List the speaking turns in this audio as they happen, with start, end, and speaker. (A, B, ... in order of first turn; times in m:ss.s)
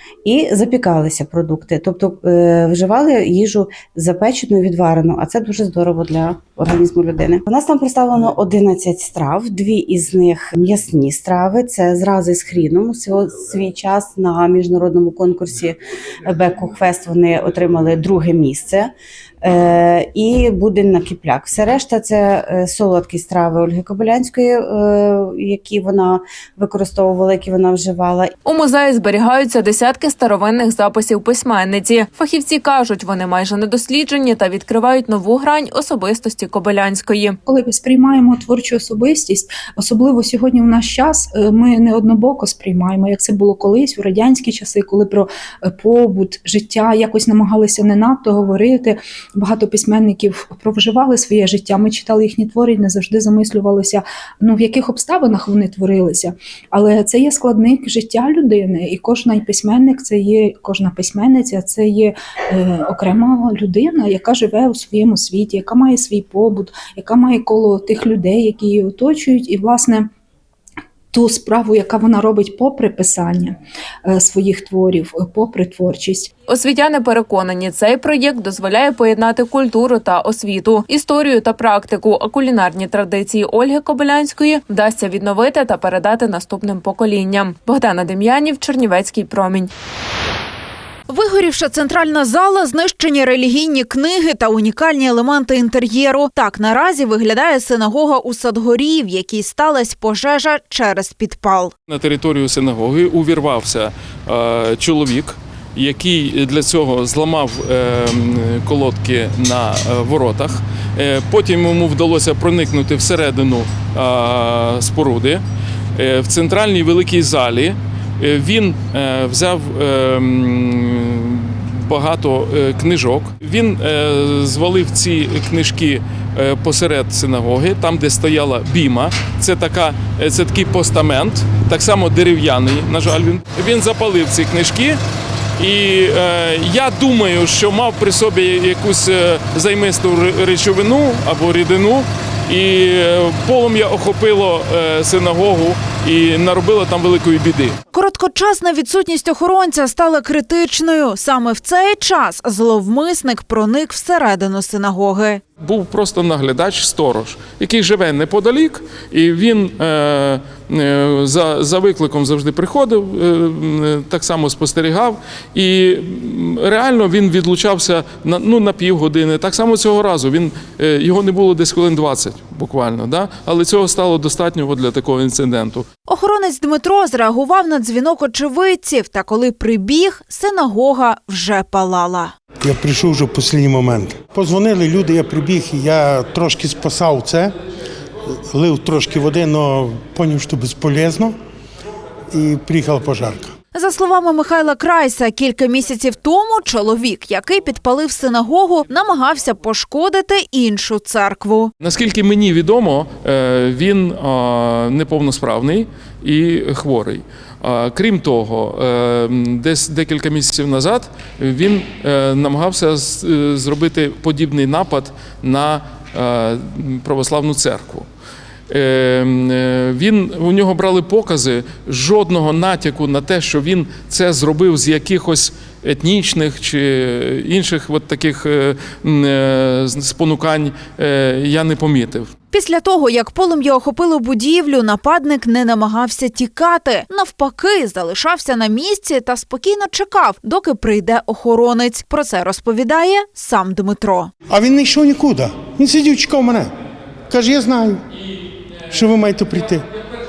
0:00.2-0:28.3 A
0:28.4-0:37.4 B
0:37.5-1:10.1 C
1:11.1-1:16.3 C
1:16.5-1:29.7 B
1:31.1-1:41.7 D
1:41.9-1:55.4 E
1:56.0-2:15.0 E
2:15.6-2:27.8 E
2:27.9-2:35.4 D
2:35.6-2:55.9 E
2:56.1-3:02.3 D
3:02.6-3:07.6 F
3:08.3-3:11.4 F
3:12.3-3:13.5 F
3:13.7-3:21.7 D
3:21.8-3:38.1 E
3:38.7-3:52.3 E
3:52.5-4:04.3 D
4:04.5-4:06.7 F
4:07.3-4:08.0 F
4:08.9-4:09.8 F